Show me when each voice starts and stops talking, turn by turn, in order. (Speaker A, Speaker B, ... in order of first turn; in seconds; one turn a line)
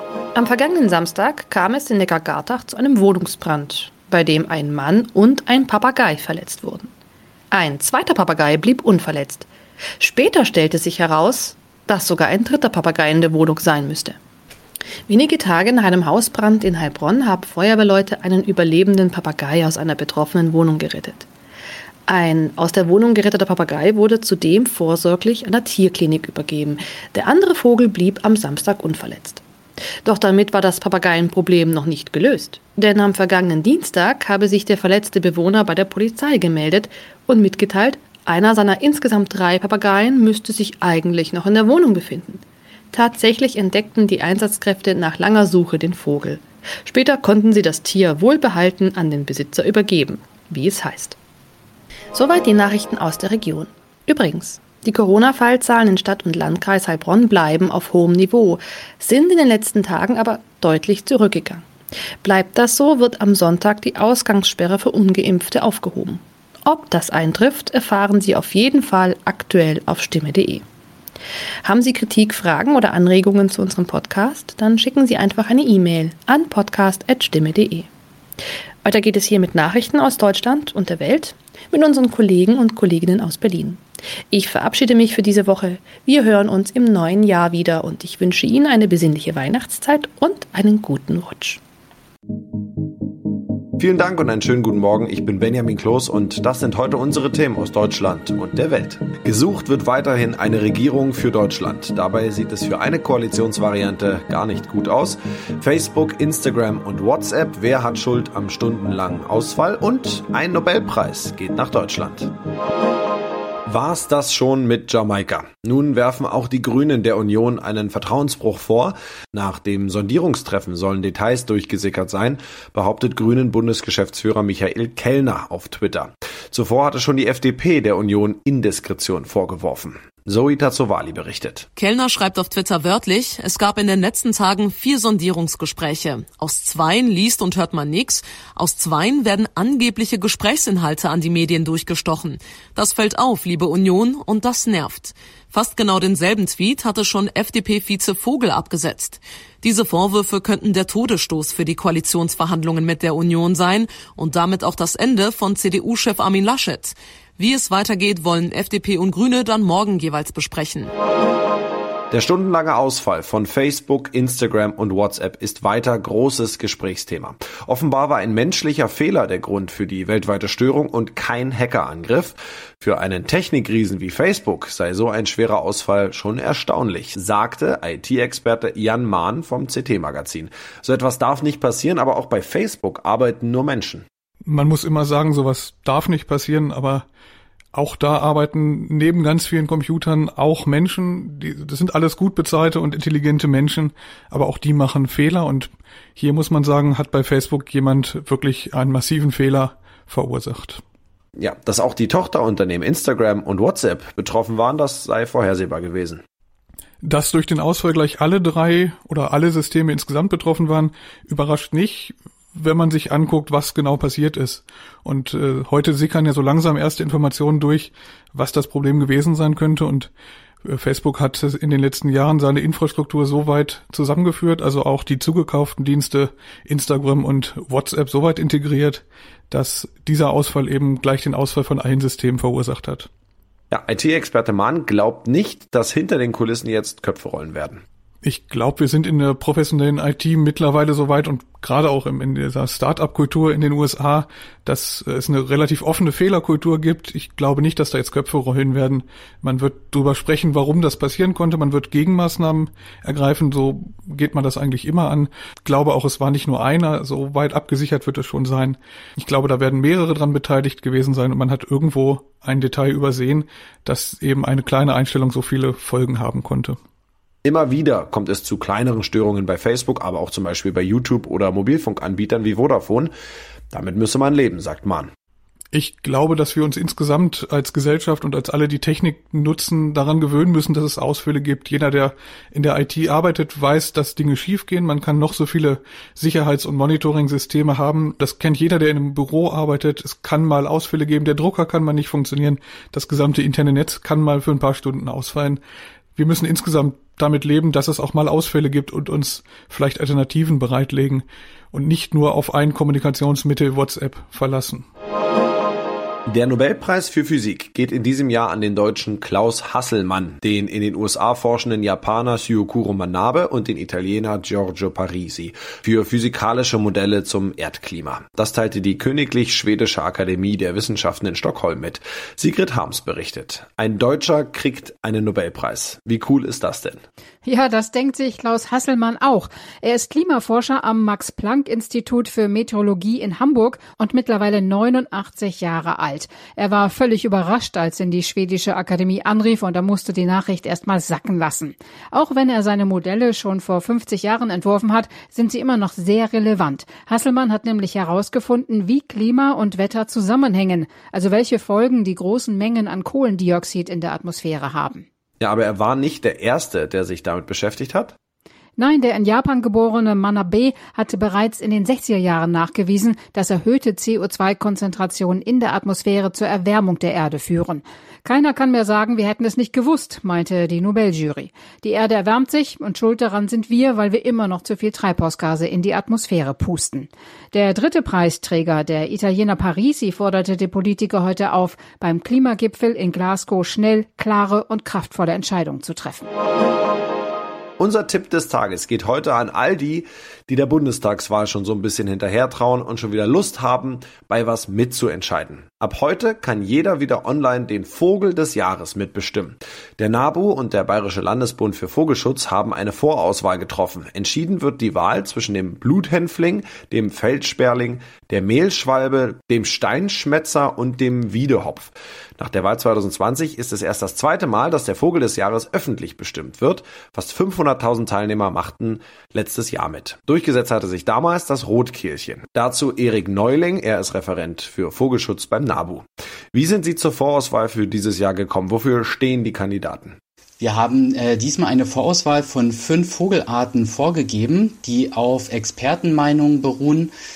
Speaker A: 0.3-6.9
Speaker A: 7.5-9.5
Speaker A: 10.0-14.2
Speaker A: 15.1-21.3
Speaker A: 22.1-29.4
Speaker A: 30.0-42.4
Speaker A: 42.9-51.2
Speaker A: 52.1-61.6
Speaker A: 62.2-70.6
Speaker A: 71.6-77.9
Speaker A: 78.8-91.6
Speaker B: 93.8-112.3
Speaker B: 113.7-131.7
Speaker C: 131.8-160.9
Speaker B: 162.1-184.1
Speaker D: 184.4-187.1
Speaker D: 187.7-200.8
Speaker B: 201.4-206.2
Speaker D: 207.0-220.1
Speaker D: 220.6-233.1
Speaker B: 233.7-237.8
Speaker D: 238.2-266.8
Speaker B: 267.4-273.1
Speaker B: 273.7-275.1
Speaker D: 275.7-295.6
Speaker D: 296.1-304.9
Speaker B: 306.3-327.0
Speaker E: 327.4-355.0
Speaker B: 355.4-358.1
Speaker E: 358.8-386.3
Speaker B: 387.8-430.1
Speaker F: 430.6-437.1